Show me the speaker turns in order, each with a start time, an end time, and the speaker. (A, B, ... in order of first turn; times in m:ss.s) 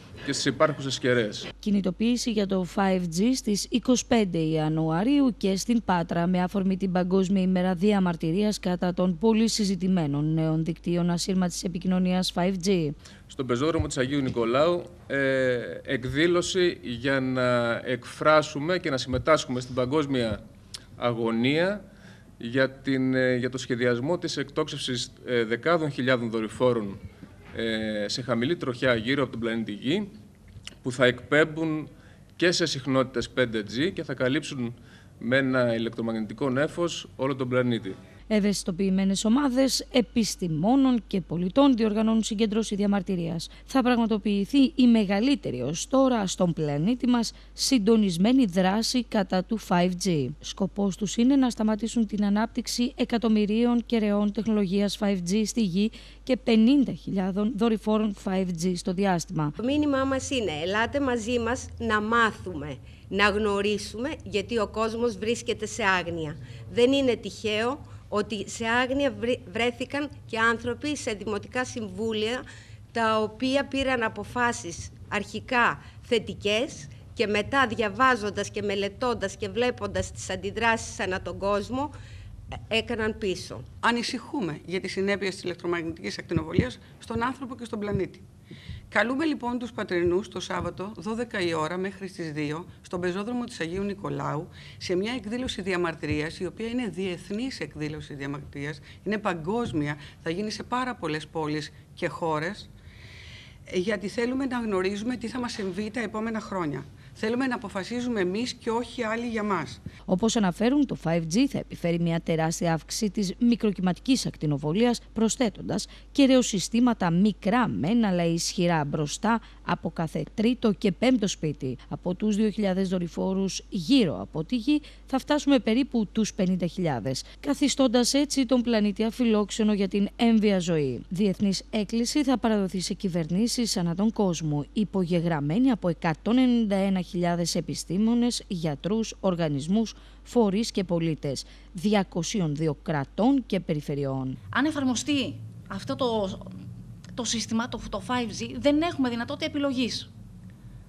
0:00.2-0:01.5 A
0:01.6-0:13.0 B
0:13.3-0:20.4 A
0:21.0-0:21.8 A
0:22.4-0:27.0 A
0:27.5-0:30.1 A
0:30.8-0:38.0 A
0:38.3-0:59.6 B
0:59.6-1:21.9 C
1:22.7-1:23.6 C
1:23.8-1:28.2 D
1:28.9-1:42.7 D
1:43.7-1:49.8 D
1:50.1-2:24.4 B
2:24.5-2:26.5 E
2:27.2-2:30.1 E